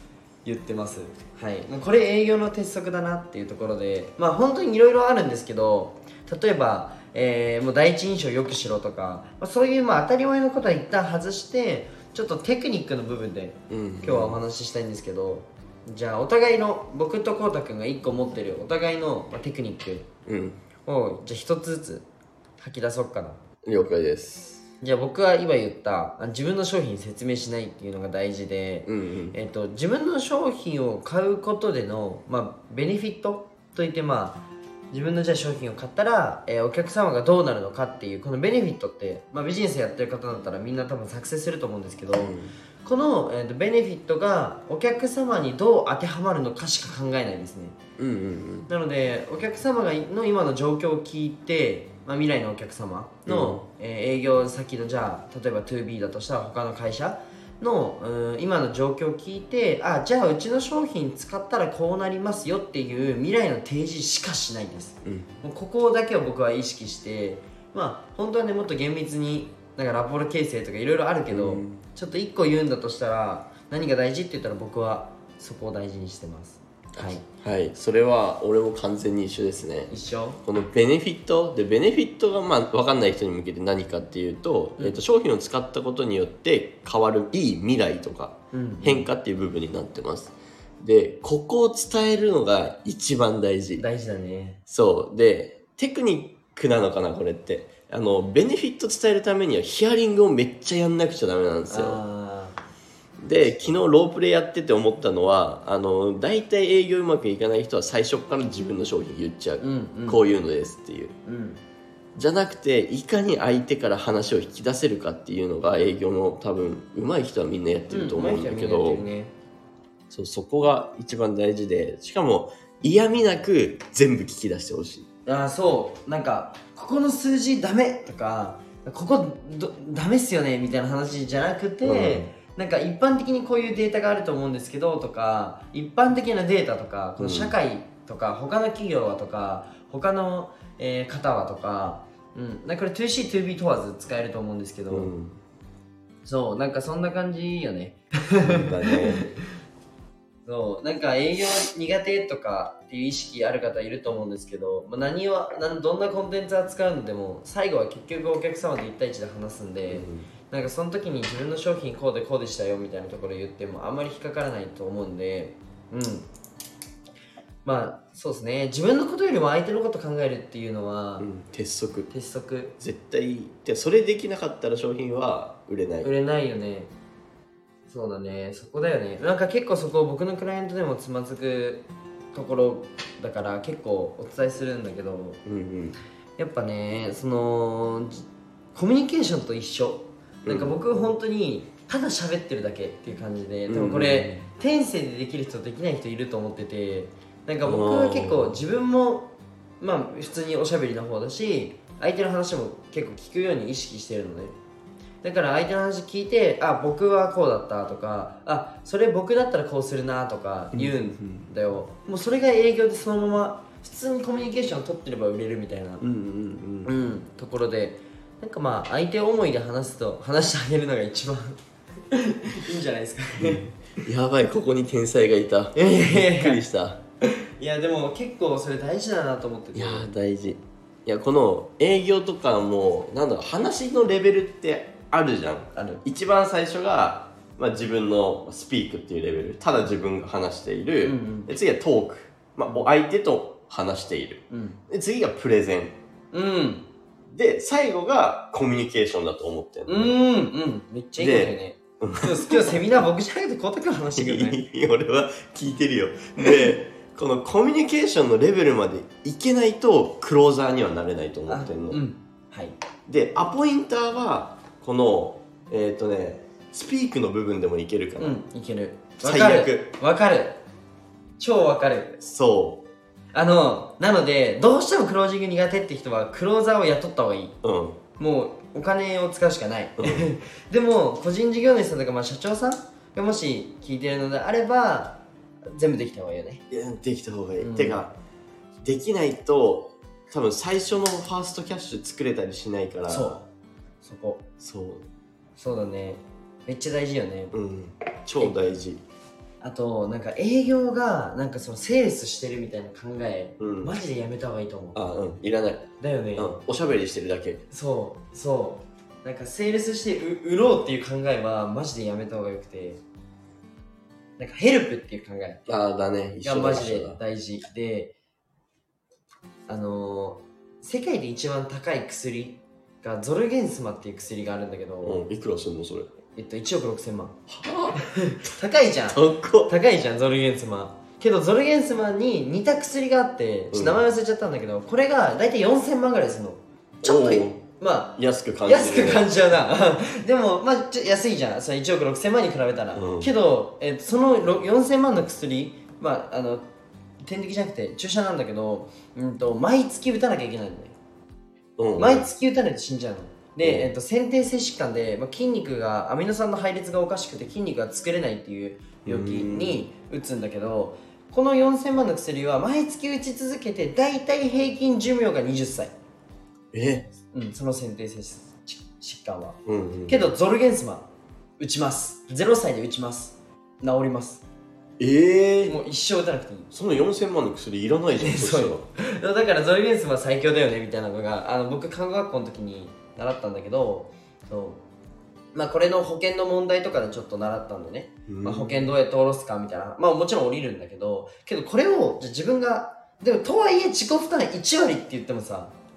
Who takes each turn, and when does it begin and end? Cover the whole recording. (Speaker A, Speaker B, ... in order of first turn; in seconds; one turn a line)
Speaker A: 0.4-20.1
Speaker B: 13.7-14.4
Speaker B: 20.2-20.6
Speaker A: 20.8-22.1
Speaker A: 22.6-23.4
Speaker B: 23.6-24.6
Speaker A: 24.8-47.8
Speaker B: 28.9-29.3
Speaker B: 42.1-42.5
Speaker B: 48.0-48.7
Speaker A: 48.7-77.2
Speaker B: 53.3-53.6
Speaker B: 65.0-65.4
Speaker B: 71.3-71.8
Speaker B: 77.0-79.9
Speaker A: 79.9-80.4
Speaker B: 80.4-93.8
Speaker A: 88.5-89.1
Speaker A: 93.8-94.6
Speaker B: 94.7-102.0
Speaker A: 101.7-102.6
Speaker B: 103.2-111.2
Speaker A: 109.6-110.2
Speaker A: 111.2-111.6
Speaker B: 112.2-119.0
Speaker A: 117.9-119.3
Speaker B: 120.1-125.0
Speaker A: 125.2-145.1
Speaker B: 131.8-132.3
Speaker B: 137.2-137.5
Speaker B: 144.9-145.4
Speaker A: 146.2-149.3
Speaker B: 148.4-149.3
Speaker A: 150.4-166.3
Speaker B: 159.9-160.3
Speaker A: 167.6-171.3
Speaker B: 171.2-172.1
Speaker A: 172.1-172.7
Speaker B: 172.8-176.1
Speaker A: 176.0-176.9
Speaker A: 177.9-185.4
Speaker B: 185.4-186.0
Speaker A: 186.4-199.3
Speaker B: 190.4-190.8
Speaker B: 193.7-194.5
Speaker B: 197.6-198.6
Speaker A: 199.8-204.5
Speaker A: 205.2-216.0
Speaker B: 210.7-211.5
Speaker B: 216.0-217.1
Speaker A: 216.8-221.6
Speaker A: 222.1-223.7
Speaker B: 223.4-227.0
Speaker A: 225.7-226.6
Speaker A: 227.6-230.1
Speaker B: 229.7-245.9
Speaker A: 235.7-236.0
Speaker A: 241.0-241.5
Speaker A: 244.5-244.8
Speaker A: 246.3-246.9
Speaker B: 247.3-250.2
Speaker A: 249.9-254.6
Speaker B: 251.2-253.0
Speaker B: 254.1-262.0
Speaker A: 256.4-256.7
Speaker A: 261.5-262.8
Speaker B: 263.1-268.4
Speaker A: 268.2-270.6
Speaker B: 269.2-269.9
Speaker A: 271.4-272.2
Speaker B: 272.2-272.9
Speaker A: 273.3-277.6
Speaker B: 277.6-278.0
Speaker A: 278.2-286.6
Speaker B: 280.0-280.3
Speaker B: 286.7-288.1
Speaker A: 287.6-288.0
Speaker B: 288.8-293.3
Speaker A: 293.1-293.4
Speaker A: 294.0-294.4
Speaker B: 294.6-295.1
Speaker A: 295.6-297.5
Speaker B: 297.5-299.0
Speaker A: 299.6-305.0
Speaker B: 303.6-303.9
Speaker B: 304.9-307.6
Speaker A: 306.0-306.5
Speaker A: 307.7-313.0
Speaker A: 314.4-315.6
Speaker B: 315.6-317.2
Speaker A: 316.4-318.1
Speaker A: 319.7-325.2
Speaker B: 325.0-326.1
Speaker A: 326.3-327.4
Speaker B: 327.5-328.0
Speaker A: 327.9-346.6
Speaker B: 329.1-329.7
Speaker B: 333.7-334.0
Speaker B: 337.0-337.6
Speaker B: 338.2-339.3
Speaker B: 342.9-343.3
Speaker A: 347.2-350.9
Speaker B: 351.8-352.3
Speaker A: 352.0-365.9
Speaker B: 353.6-353.9
Speaker B: 359.0-359.8
Speaker B: 366.7-367.1
Speaker A: 367.3-371.1
Speaker B: 369.6-370.3
Speaker A: 371.6-374.4
Speaker B: 375.0-375.8
Speaker A: 375.7-376.7
Speaker B: 376.7-378.9
Speaker A: 378.1-384.8
Speaker A: 385.5-395.7
Speaker B: 388.3-388.9